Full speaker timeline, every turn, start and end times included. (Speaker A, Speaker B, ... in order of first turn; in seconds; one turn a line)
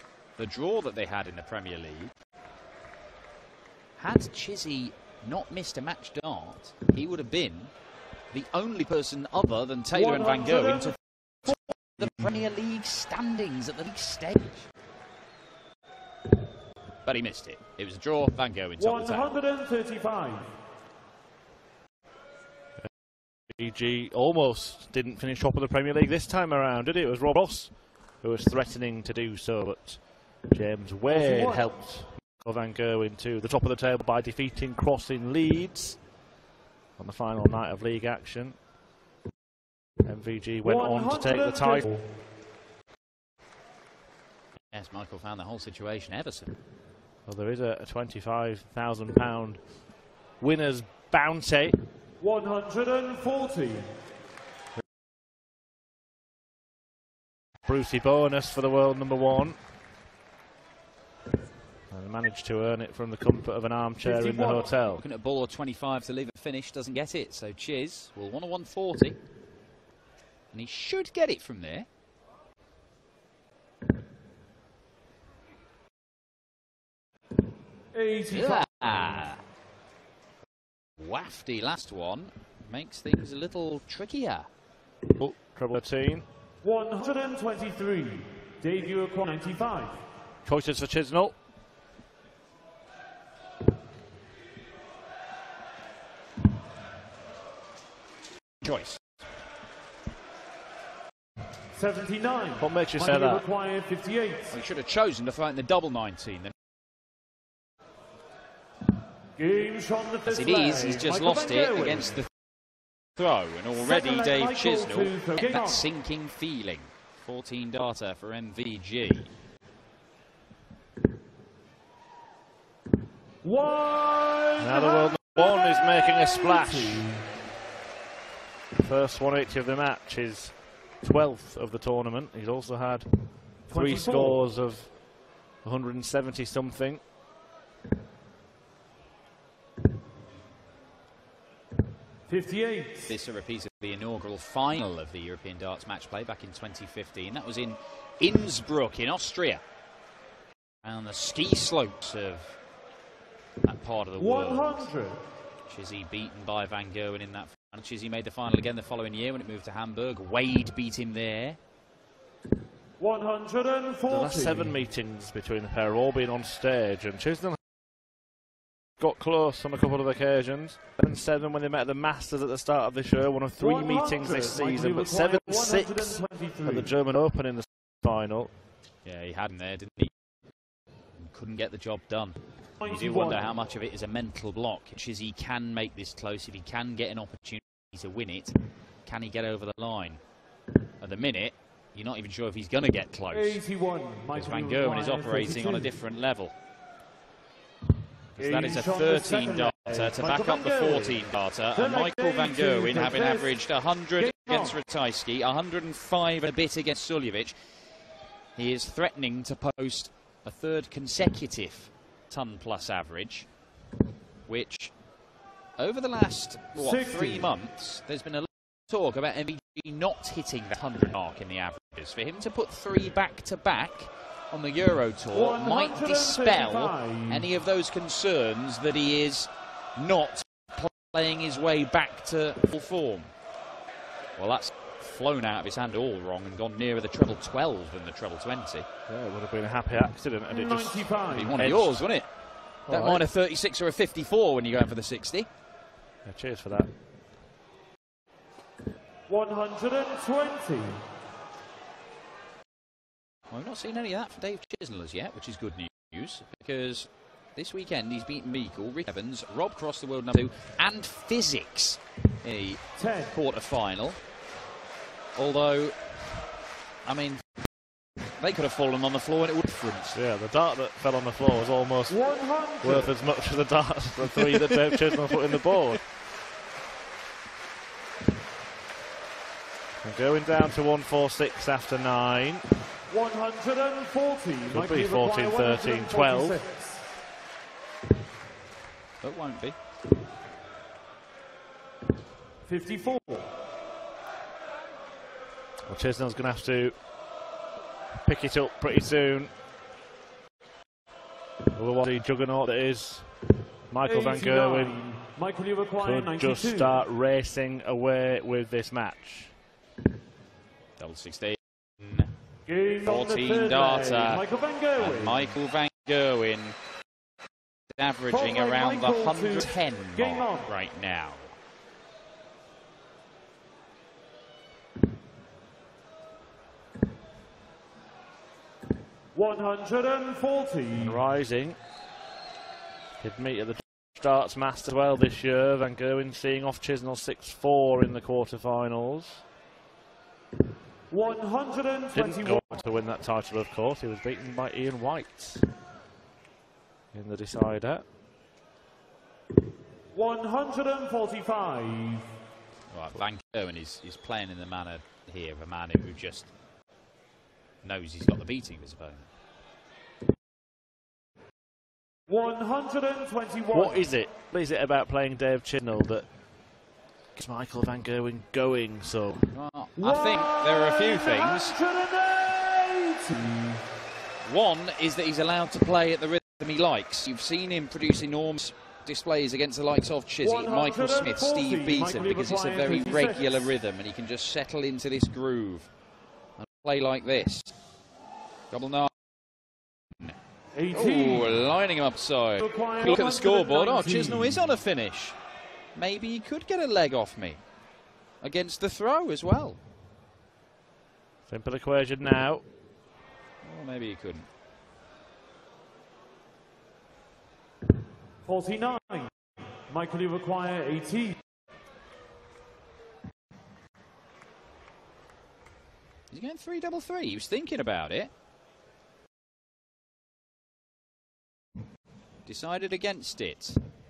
Speaker A: 0.4-2.1
Speaker A: 4.0-7.7
Speaker A: 8.3-14.7
Speaker B: 9.9-10.9
Speaker A: 17.0-19.3
Speaker B: 18.8-20.5
Speaker C: 23.5-36.0
Speaker B: 31.1-31.6
Speaker C: 37.0-38.5
Speaker C: 40.0-41.9
Speaker B: 40.6-42.0
Speaker A: 44.7-46.5
Speaker C: 47.2-49.6
Speaker C: 50.4-51.8
Speaker B: 52.2-53.9
Speaker C: 57.6-59.6
Speaker C: 61.9-65.0
Speaker B: 64.0-64.7
Speaker A: 64.9-69.2
Speaker A: 70.5-71.9
Speaker B: 77.9-79.2
Speaker A: 78.3-79.4
Speaker A: 81.0-84.5
Speaker C: 85.1-86.2
Speaker B: 86.6-90.0
Speaker C: 90.4-91.3
Speaker A: 98.6-99.0
Speaker B: 101.7-104.5
Speaker C: 102.6-103.4
Speaker A: 104.5-106.5
Speaker B: 109.4-112.1
Speaker A: 110.2-112.3
Speaker A: 113.2-119.3
Speaker B: 113.8-115.8
Speaker B: 123.4-127.2
Speaker C: 124.6-127.1
Speaker C: 128.8-133.1
Speaker C: 133.7-135.0
Speaker B: 133.7-134.3
Speaker C: 135.6-137.0
Speaker B: 142.3-143.1
Speaker A: 143.1-149.6
Speaker A: 150.8-152.6
Speaker A: 153.6-154.9
Speaker B: 154.2-155.2
Speaker A: 155.7-161.6
Speaker B: 163.0-164.7
Speaker C: 164.1-167.6
Speaker C: 169.0-178.5
Speaker B: 173.6-176.9
Speaker A: 179.0-180.1
Speaker A: 181.2-190.2
Speaker B: 182.8-183.5
Speaker A: 191.0-193.6
Speaker B: 193.3-195.9
Speaker A: 194.3-196.5
Speaker A: 198.4-207.6
Speaker B: 198.4-201.2
Speaker B: 201.7-203.6
Speaker B: 204.2-204.7
Speaker A: 208.6-213.5
Speaker A: 214.5-214.9
Speaker A: 215.8-233.3
Speaker B: 216.7-217.5
Speaker B: 225.3-227.4
Speaker A: 234.4-238.9
Speaker C: 239.1-242.0
Speaker B: 240.5-241.6
Speaker A: 241.3-242.3
Speaker C: 242.9-243.3
Speaker A: 242.9-245.5
Speaker C: 246.2-246.9
Speaker B: 249.3-251.0
Speaker A: 253.5-264.2
Speaker B: 263.0-263.3
Speaker A: 265.3-266.1
Speaker A: 267.0-267.4
Speaker A: 268.3-270.2
Speaker C: 270.1-272.2
Speaker B: 272.1-273.1
Speaker C: 272.8-276.0
Speaker A: 274.4-274.8
Speaker C: 280.0-282.6
Speaker B: 283.1-287.0
Speaker C: 284.7-286.6
Speaker A: 289.2-289.8
Speaker B: 292.6-293.5
Speaker C: 295.9-296.9
Speaker C: 298.2-299.5
Speaker C: 301.7-303.3
Speaker C: 303.9-305.0
Speaker B: 304.0-307.0
Speaker C: 306.0-309.5
Speaker A: 311.0-312.3
Speaker B: 312.7-315.5
Speaker A: 313.0-314.4
Speaker A: 314.9-316.8
Speaker A: 317.9-321.5
Speaker B: 318.3-320.7
Speaker B: 329.3-331.2
Speaker C: 331.0-331.8
Speaker C: 333.2-339.4
Speaker B: 341.1-342.8
Speaker C: 342.1-345.6
Speaker C: 347.1-348.0
Speaker B: 350.1-352.3
Speaker A: 352.9-356.5
Speaker A: 357.8-359.3
Speaker B: 362.3-364.0
Speaker C: 363.7-366.3
Speaker C: 367.3-369.5
Speaker A: 369.5-371.8
Speaker B: 370.0-373.8
Speaker A: 374.4-385.9
Speaker B: 380.4-383.7
Speaker A: 386.6-387.7
Speaker A: 388.7-389.1
Speaker B: 390.7-391.5
Speaker A: 390.9-395.4
Speaker B: 392.6-394.5
Speaker A: 395.9-397.6
Speaker A: 398.4-399.8
Speaker C: 401.5-402.6
Speaker A: 403.6-404.5
Speaker B: 408.4-409.3
Speaker B: 409.9-411.4
Speaker A: 416.3-418.3
Speaker A: 422.4-423.8